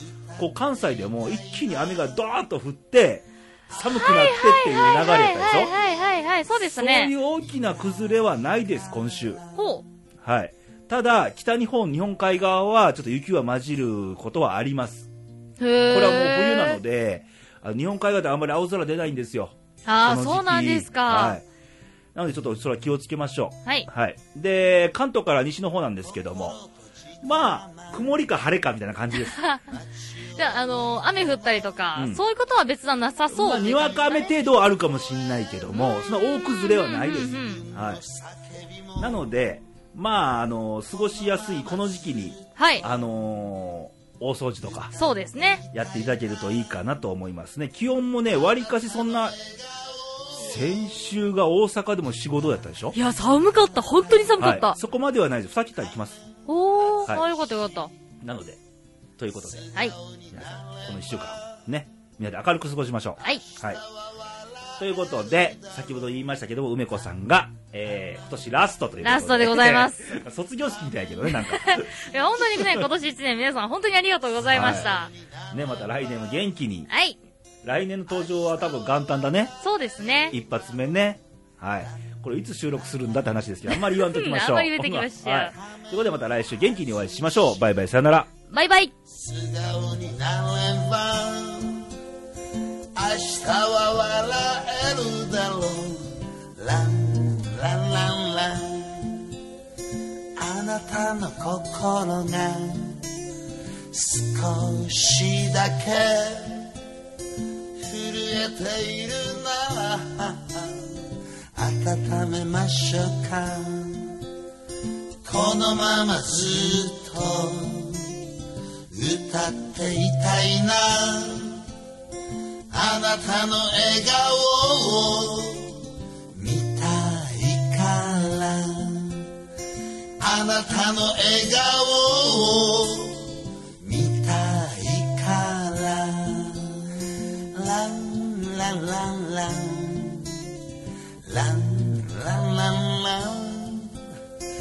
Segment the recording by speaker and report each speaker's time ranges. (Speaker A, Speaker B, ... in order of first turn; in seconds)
Speaker A: 0.4-5.7, 6.5-9.4, 10.2-15.1, 15.9-21.4, 22.1-26.6, 27.2-29.4, 31.9-32.2, 33.3-38.0, 39.0-44.9, 45.7-49.3, 50.3-53.0, 54.4-56.2, 58.2-58.6, 59.2-59.7, 60.3-63.8, 64.8-72.9, 74.5-74.9, 75.5-76.9, 77.6-79.5, 80.3-88.3
Speaker B: 3.8-7.1, 9.5-9.8, 15.6-16.8, 19.9-21.4, 29.3-29.7, 30.3-34.3, 35.7-37.6, 42.5-42.8, 44.9-45.6, 52.9-54.8, 56.5-57.9, 69.0-70.2, 71.3-75.1, 76.9-77.2, 79.6-80.3, 83.7-85.5, 88.5-88.9
Speaker C: 37.8-38.2, 89.2-91.8, 92.9-99.2, 100.3-103.0, 103.9-106.7, 107.8-114.2, 115.2-118.2, 118.9-121.6, 122.7-129.3, 130.2-140.4, 141.2-144.0